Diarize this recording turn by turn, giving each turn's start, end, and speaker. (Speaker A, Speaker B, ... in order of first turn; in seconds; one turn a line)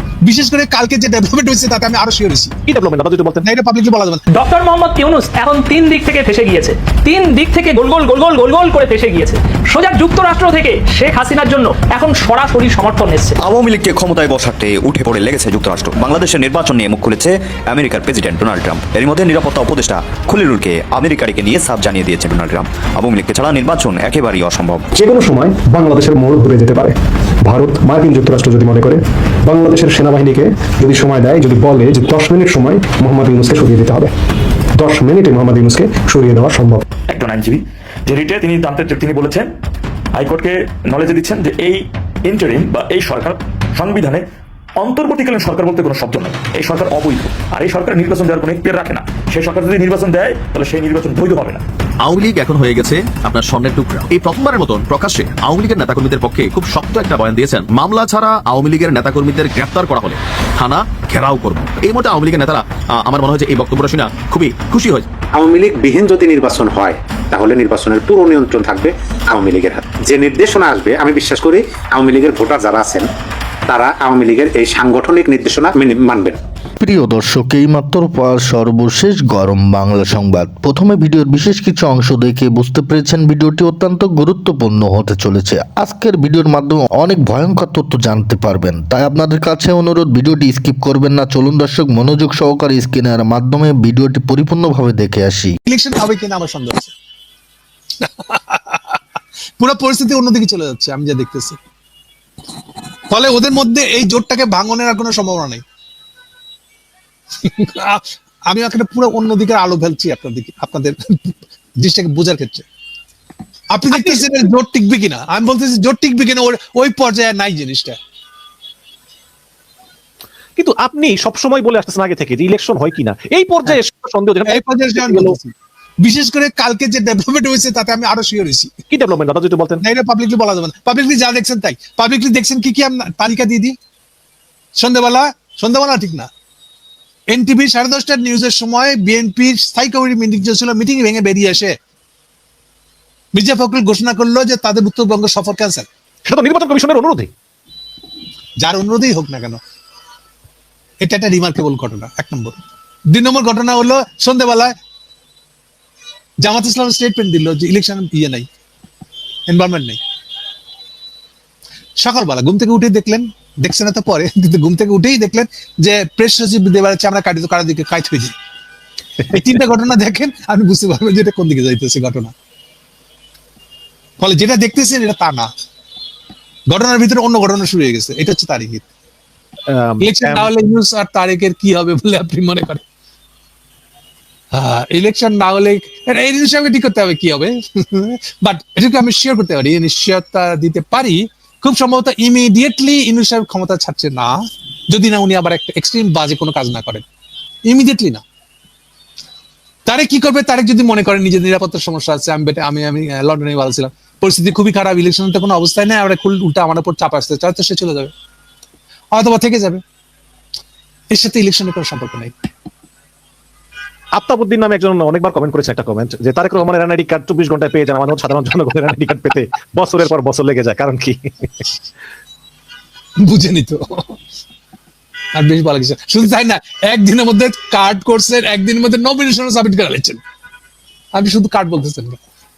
Speaker A: 0.2-2.5
Speaker B: 2.7-3.5
Speaker A: 3.4-4.2
Speaker C: 4.3-13.3
Speaker D: 13.4-24.8
Speaker E: 24.9-34.1
Speaker E: 34.7-36.8
Speaker F: 37.1-39.5
Speaker F: 40.1-44.2
Speaker F: 44.8-51.6
Speaker G: 52.0-65.1
Speaker H: 65.3-73.1
Speaker H: 73.7-76.4
Speaker I: 76.8-95.5
Speaker A: 95.6-96.9
Speaker A: 98.0-99.0
Speaker A: 99.6-101.6
Speaker A: 103.1-105.6
Speaker A: 107.4-112.6
Speaker A: 113.7-118.0
Speaker B: 113.9-114.3
Speaker B: 120.6-125.4
Speaker A: 124.5-125.5
Speaker A: 126.0-128.7
Speaker B: 128.9-129.8
Speaker A: 129.8-133.8
Speaker A: 134.8-136.3
Speaker A: 137.3-141.8
Speaker A: 143.3-145.9
Speaker B: 146.2-147.3
Speaker A: 148.6-149.6
Speaker A: 151.0-152.6
Speaker A: 153.1-154.7
Speaker A: 156.4-158.5
Speaker A: 159.5-160.0
Speaker A: 162.0-168.3
Speaker A: 169.3-172.3
Speaker A: 174.2-175.5
Speaker A: 176.7-178.8
Speaker B: 179.7-180.5
Speaker A: 180.0-182.8
Speaker A: 184.5-197.0
Speaker A: 197.7-198.2
Speaker A: 199.9-208.1
Speaker A: 209.1-209.8
Speaker A: 211.1-212.3
Speaker B: 214.1-221.5
Speaker A: 223.2-224.2
Speaker A: 225.3-230.2
Speaker A: 231.1-232.2